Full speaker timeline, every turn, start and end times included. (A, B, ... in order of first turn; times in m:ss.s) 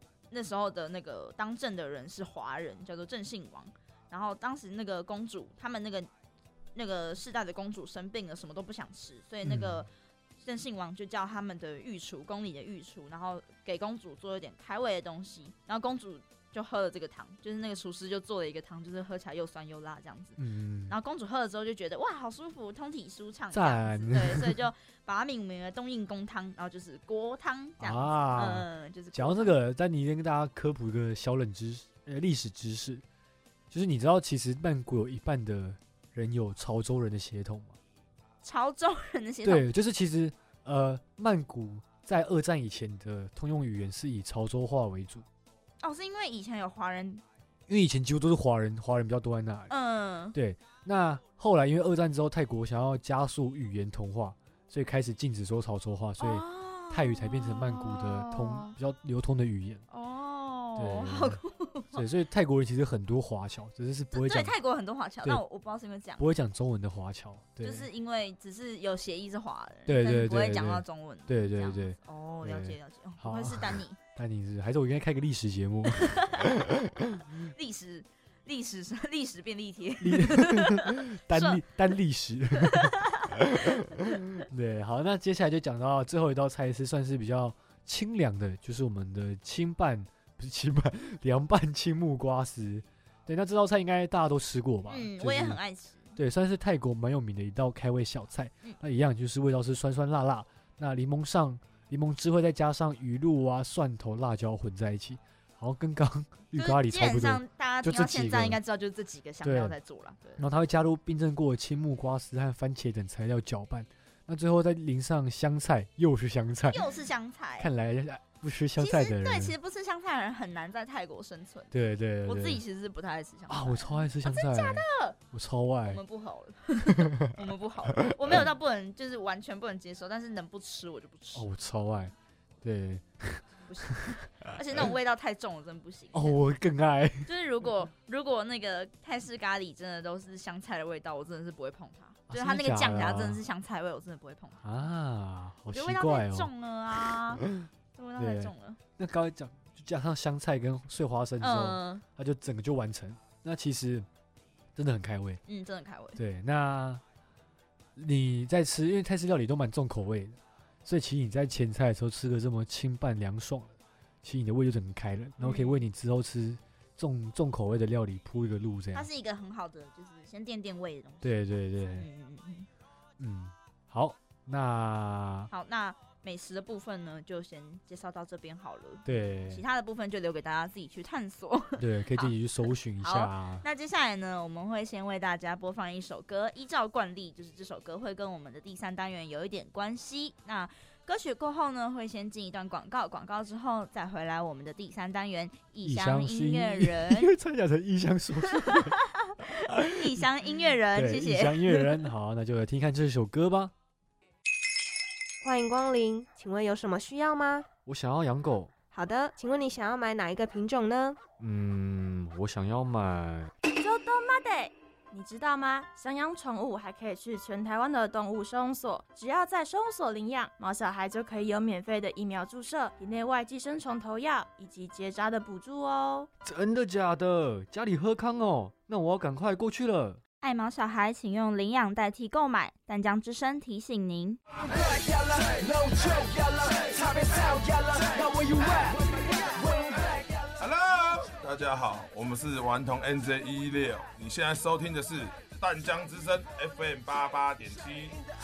0:00.3-0:06.1 A
0:06.8-0:09.9 A
0:09.4-0:09.9 B
0:10.4-0:29.5 A
0:20.4-0:21.0 B
0:23.5-0:24.6 B
0:27.8-0:33.0 B
0:33.7-0:37.8 B
0:38.4-0:39.7 A
0:39.4-0:45.3 B
0:45.8-0:47.2 A
0:47.7-0:49.7 B
0:49.7-0:50.4 A
0:50.3-0:59.8 B
0:56.2-0:58.7 A
0:59.9-1:02.0 A
1:00.8-1:01.4 B
1:01.9-1:04.6 B
1:04.1-1:06.3 A
1:06.2-1:07.9 B
1:07.6-1:14.0 A
1:09.9-1:16.3 B
1:16.0-1:16.5 A
1:17.5-1:21.6 A
1:20.0-1:23.8 B
1:22.6-1:23.4 A
1:24.4-1:35.6 B
1:34.9-1:36.2 A
1:36.2-1:48.6 B
1:46.6-1:50.4 A
1:49.4-1:49.8 B
1:50.4-1:56.9 B
1:56.7-1:57.7 A
1:57.6-1:59.6 B
1:58.8-2:01.7 A
2:01.7-2:02.6 B
2:02.2-2:05.2 A
2:03.5-2:06.0 B
2:05.9-2:11.5 A
2:08.0-2:08.3 B
2:11.3-2:14.1 B
2:13.7-2:16.4 A
2:16.1-2:17.3 B
2:17.2-2:24.6 A
2:22.3-2:23.4 B
2:24.6-2:26.5 B
2:25.7-2:28.8 A
2:28.2-2:34.1 B
2:31.4-2:32.0 A
2:34.8-2:35.4 B
2:35.5-2:36.2 A
2:36.2-2:37.0 B
2:38.0-2:49.1 B
2:45.4-2:45.8 A
2:48.9-2:51.3 A
2:51.2-2:52.1 B
2:51.9-2:52.7 A
2:53.2-2:55.5 B
2:55.5-3:02.3 A
2:59.0-2:59.6 B
3:01.8-3:03.6 B
3:03.0-3:17.3 A
3:15.8-3:19.0 B
3:18.5-3:22.1 A
3:19.7-3:20.2 B
3:20.9-3:23.7 B
3:25.4-3:27.7 C
3:27.9-3:28.7 B
3:28.9-3:31.2 C
3:31.4-3:33.5 B
3:33.8-3:46.3 D
3:46.4-3:50.2 B
3:50.4-3:54.4 A
3:54.8-4:08.2 E